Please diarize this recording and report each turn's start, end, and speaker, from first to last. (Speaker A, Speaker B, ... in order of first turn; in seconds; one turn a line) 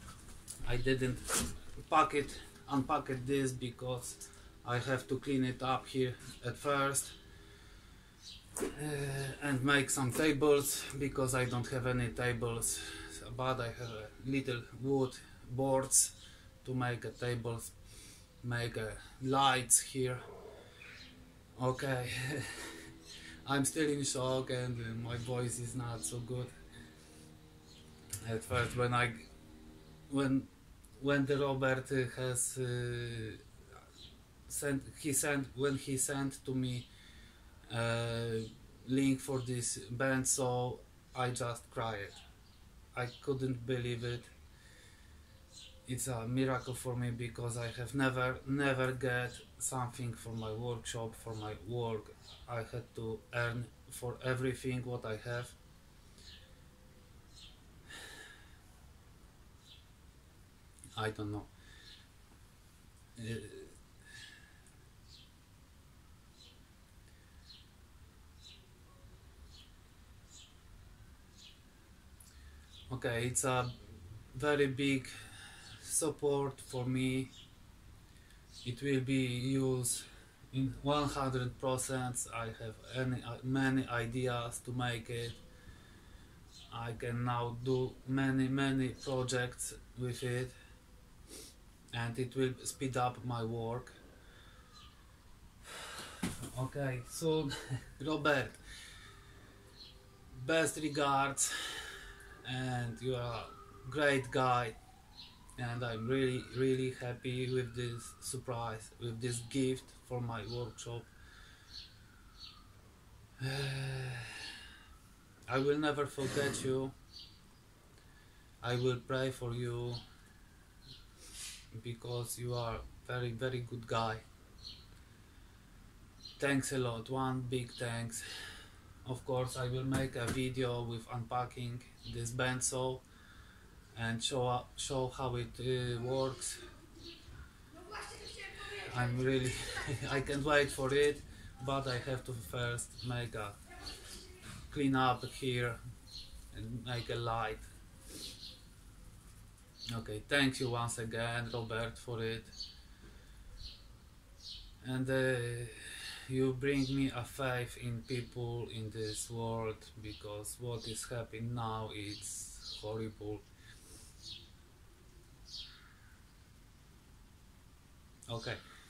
Speaker A: 0.6-7.1
Speaker A: 8.7-17.8
Speaker A: 18.4-20.2
Speaker A: 21.6-22.7
Speaker A: 23.4-26.5
Speaker A: 28.2-29.3
Speaker A: 30.1-33.4
Speaker A: 34.5-36.9
Speaker A: 37.7-42.2
Speaker A: 42.9-44.3
Speaker A: 45.9-55.5
Speaker A: 61.0-61.5
Speaker A: 63.1-63.8
Speaker A: 72.9-73.7
Speaker A: 74.3-75.1
Speaker A: 75.8-77.3
Speaker A: 78.6-85.4
Speaker A: 86.7-90.5
Speaker A: 91.9-94.0
Speaker A: 96.5-98.6
Speaker A: 100.3-104.8
Speaker A: 105.6-111.1
Speaker A: 113.4-114.4
Speaker A: 115.5-116.9
Speaker A: 118.6-120.0
Speaker A: 121.7-124.2
Speaker A: 126.4-128.2
Speaker A: 129.0-133.0
Speaker A: 133.9-136.6
Speaker A: 138.5-143.6
Speaker A: 144.7-145.8
Speaker A: 146.5-147.7
Speaker A: 149.9-152.6
Speaker A: 154.8-163.4
Speaker A: 168.3-168.6